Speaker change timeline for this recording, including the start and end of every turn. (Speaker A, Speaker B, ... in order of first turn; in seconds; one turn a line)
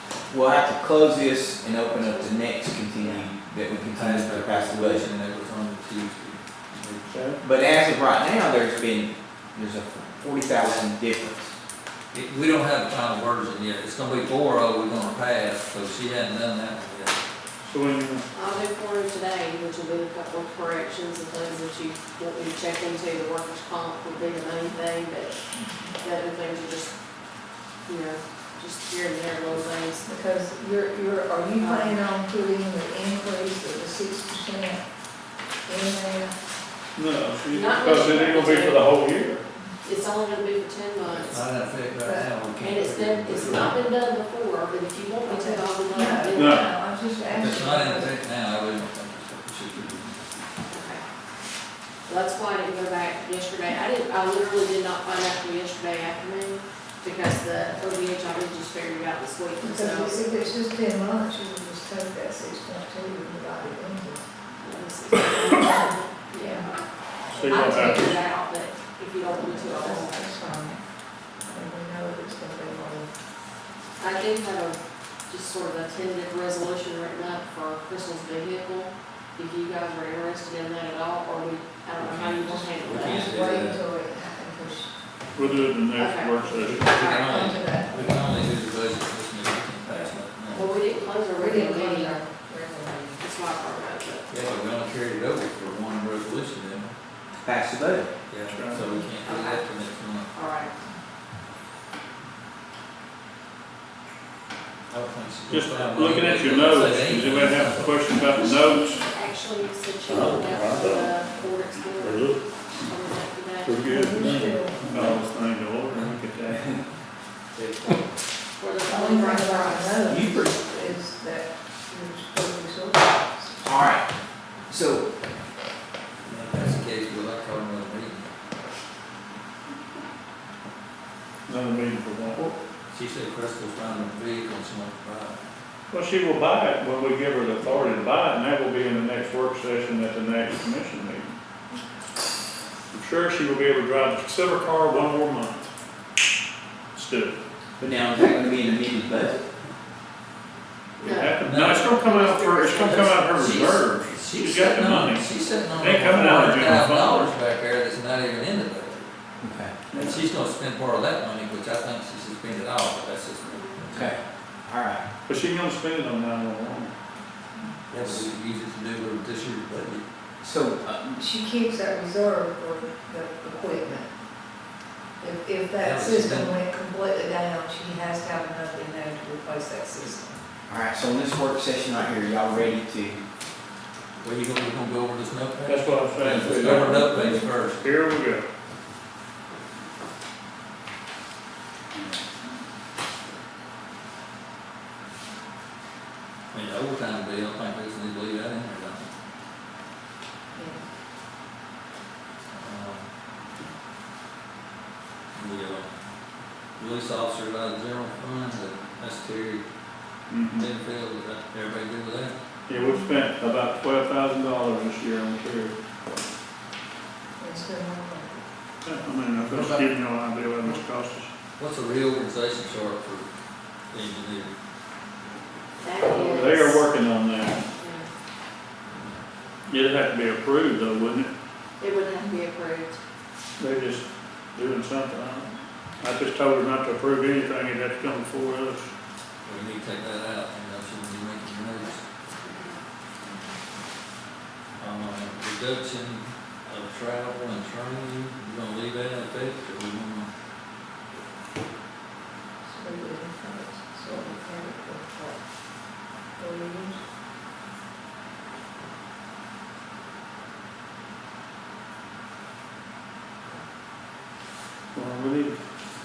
Speaker A: 0.3-5.1
Speaker B: 1.9-3.2
Speaker C: 3.8-7.0
Speaker D: 7.1-7.4
Speaker A: 7.4-11.6
Speaker C: 12.1-17.2
Speaker D: 17.6-18.2
Speaker B: 18.3-25.3
Speaker E: 25.6-25.9
Speaker B: 26.0-26.9
Speaker B: 27.9-30.0
Speaker E: 30.0-34.8
Speaker B: 31.6-32.0
Speaker E: 35.7-36.3
Speaker D: 37.0-39.4
Speaker B: 37.5-38.8
Speaker B: 39.8-41.4
Speaker C: 41.2-43.7
Speaker E: 42.0-42.3
Speaker B: 42.6-46.7
Speaker D: 43.4-43.7
Speaker E: 45.3-48.2
Speaker D: 46.3-46.7
Speaker C: 47.3-50.3
Speaker B: 50.7-51.0
Speaker B: 52.1-60.2
Speaker E: 59.6-64.3
Speaker B: 64.6-66.8
Speaker E: 66.4-66.7
Speaker D: 67.3-68.1
Speaker E: 67.5-68.1
Speaker B: 67.5-70.2
Speaker E: 69.3-70.8
Speaker E: 71.5-73.1
Speaker B: 74.0-83.3
Speaker C: 82.0-83.8
Speaker E: 82.4-85.6
Speaker D: 85.4-87.1
Speaker B: 86.0-87.5
Speaker C: 86.6-90.7
Speaker E: 87.2-88.3
Speaker B: 90.5-92.2
Speaker E: 91.4-93.2
Speaker B: 93.2-94.3
Speaker C: 94.3-96.9
Speaker A: 97.4-98.1
Speaker C: 98.3-100.3
Speaker D: 98.5-98.9
Speaker B: 99.2-99.7
Speaker B: 100.3-100.8
Speaker C: 104.9-107.9
Speaker D: 105.5-109.0
Speaker B: 108.3-113.8
Speaker D: 110.1-111.1
Speaker D: 112.0-112.4
Speaker D: 113.6-116.6
Speaker E: 113.8-115.1
Speaker A: 115.9-116.8
Speaker B: 118.6-120.1
Speaker E: 118.9-123.9
Speaker A: 120.1-120.6
Speaker A: 123.6-124.1
Speaker A: 124.7-125.1
Speaker C: 126.2-128.3
Speaker D: 131.5-132.5
Speaker C: 132.9-135.4
Speaker D: 135.9-141.3
Speaker D: 142.9-145.7
Speaker D: 146.9-147.4
Speaker A: 147.8-149.4
Speaker B: 151.0-153.2
Speaker D: 151.0-157.3
Speaker C: 151.4-152.0
Speaker C: 152.8-159.1
Speaker A: 159.4-159.8
Speaker D: 159.9-160.2
Speaker C: 159.9-164.1
Speaker B: 163.5-163.9
Speaker A: 163.9-165.0
Speaker D: 165.3-166.9
Speaker C: 167.9-170.0
Speaker A: 170.4-171.2
Speaker E: 171.1-174.1
Speaker E: 175.2-180.4
Speaker C: 175.8-176.6
Speaker A: 180.7-183.2
Speaker C: 184.2-187.8
Speaker D: 185.6-188.5
Speaker C: 196.5-199.1
Speaker E: 200.5-200.8
Speaker C: 202.5-203.1
Speaker C: 205.3-205.9
Speaker C: 206.8-209.6
Speaker D: 210.3-210.7
Speaker C: 210.6-212.3
Speaker D: 212.7-215.7
Speaker E: 212.7-213.3
Speaker E: 217.4-218.4
Speaker D: 218.8-221.3
Speaker C: 219.4-219.9
Speaker C: 221.6-223.3
Speaker C: 223.9-224.5
Speaker B: 225.8-226.8
Speaker D: 226.0-227.6
Speaker B: 227.8-228.1
Speaker D: 229.7-231.3
Speaker B: 231.8-233.0
Speaker D: 233.6-235.5
Speaker D: 236.0-238.9
Speaker C: 239.4-242.0
Speaker B: 242.4-242.8
Speaker C: 244.8-250.3
Speaker E: 252.7-255.4
Speaker E: 256.4-257.0
Speaker D: 264.9-265.6